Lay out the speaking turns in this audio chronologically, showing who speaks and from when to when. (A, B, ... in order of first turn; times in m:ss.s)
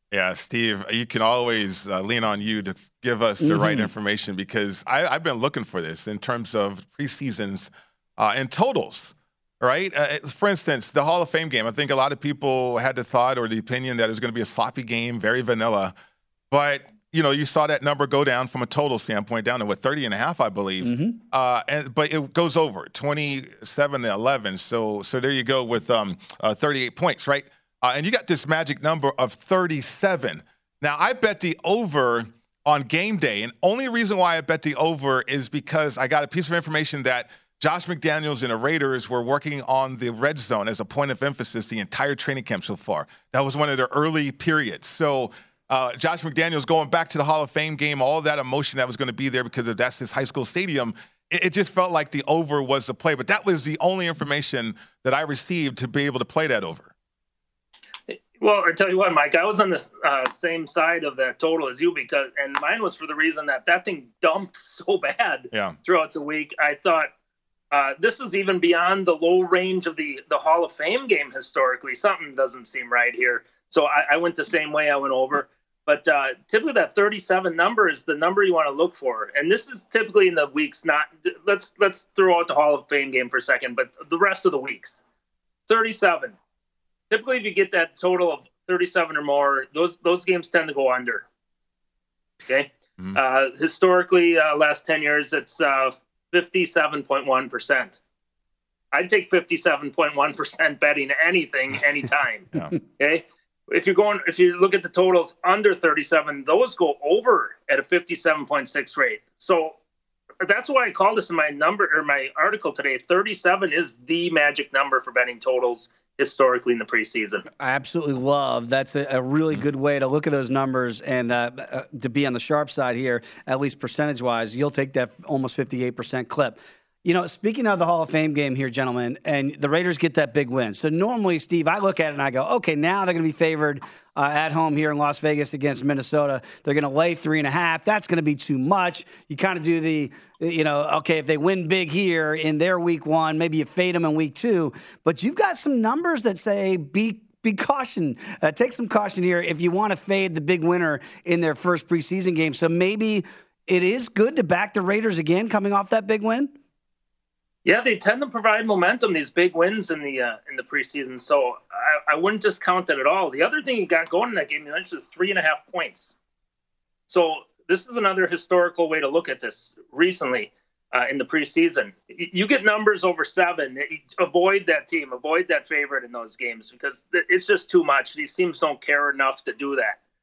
0:00.1-0:15.9 A
0:03.4-0:03.9 B
0:16.5-0:56.9 A
0:20.8-0:21.2 B
0:58.1-1:07.1 C
1:05.5-1:05.8 A
1:07.7-1:25.0 C
1:25.7-1:26.4 C
1:27.1-1:31.3 C
1:32.5-1:38.0 C
1:38.9-1:49.8 C
1:50.4-1:57.4 C
1:57.6-2:36.5 B
2:37.6-2:46.1 C
2:47.1-3:00.0 C